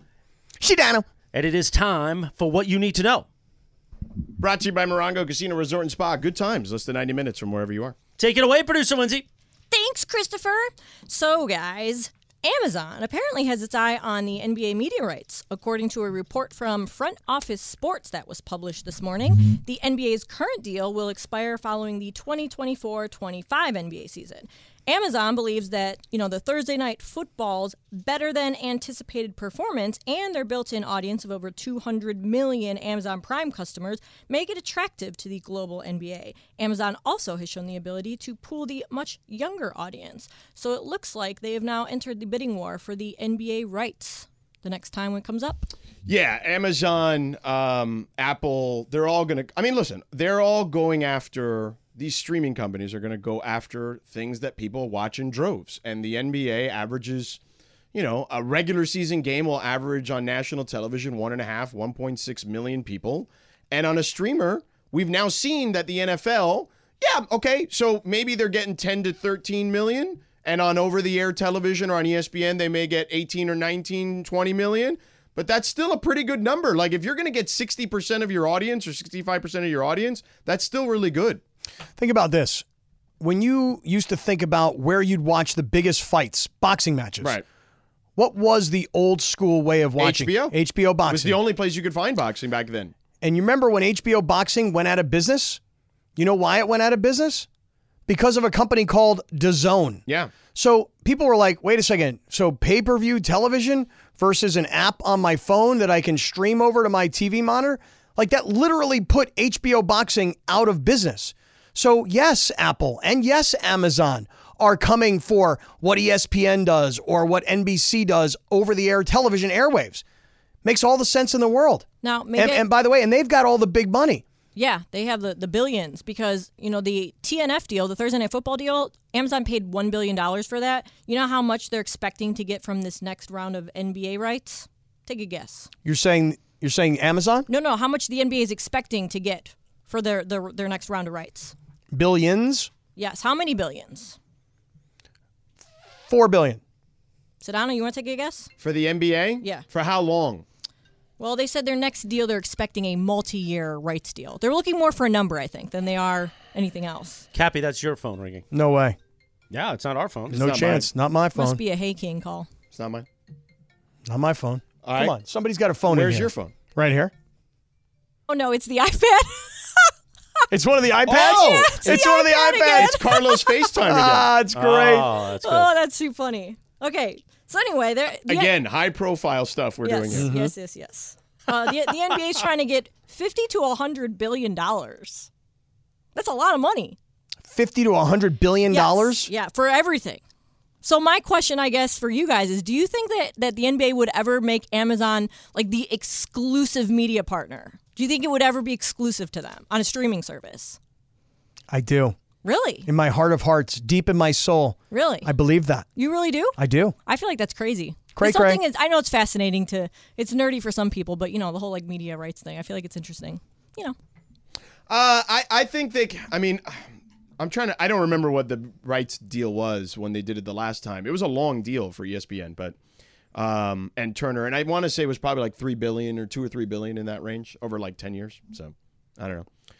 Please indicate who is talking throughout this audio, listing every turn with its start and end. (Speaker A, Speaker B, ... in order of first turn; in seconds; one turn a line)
Speaker A: 0.6-1.1
Speaker B: 1.3-3.2
Speaker C: 4.4-8.0
Speaker B: 8.2-9.2
Speaker D: 9.7-45.7
Speaker C: 46.0-57.4
Speaker C: 57.9-81.4
Speaker A: 82.0-82.6
Speaker A: 83.2-87.3
Speaker A: 88.2-91.4
Speaker C: 90.0-92.9
Speaker A: 93.2-95.6
Speaker A: 96.2-97.5
Speaker A: 98.1-100.0
Speaker A: 100.5-120.0
Speaker A: 120.6-124.2
Speaker D: 122.0-122.7
Speaker D: 124.5-135.7
Speaker A: 135.8-137.5
Speaker D: 137.5-141.5
Speaker A: 141.9-142.7
Speaker D: 142.9-144.2
Speaker A: 146.1-146.6
Speaker D: 147.4-148.5
Speaker C: 148.6-150.4
Speaker D: 151.2-157.2
Speaker B: 157.3-158.4
Speaker A: 158.5-159.0
Speaker B: 159.5-160.4
Speaker A: 160.3-161.6
Speaker C: 160.3-160.9
Speaker D: 161.3-162.5
Speaker C: 162.7-163.1
Speaker A: 164.1-167.1
Speaker C: 164.8-165.1
Speaker C: 165.9-166.5
Speaker D: 168.3-169.9
Speaker A: 170.5-173.2
Speaker C: 171.1-172.0
Speaker D: 171.1-173.8
Speaker C: 172.7-174.3
Speaker A: 173.8-175.1
Speaker B: 174.5-175.7
Speaker D: 175.4-178.5
Speaker C: 178.3-180.3
Speaker D: 179.8-185.3
Speaker A: 180.1-180.5
Speaker D: 186.1-187.0
Speaker A: 187.5-189.3
Speaker D: 188.7-190.2
Speaker D: 190.8-200.8
Speaker A: 201.7-202.2
Speaker D: 202.4-202.9
Speaker A: 202.8-205.9
Speaker D: 204.9-205.3
Speaker D: 205.9-213.9
Speaker A: 206.6-206.9
Speaker A: 208.1-208.6
Speaker C: 214.9-216.9
Speaker C: 217.4-222.8
Speaker C: 223.3-229.5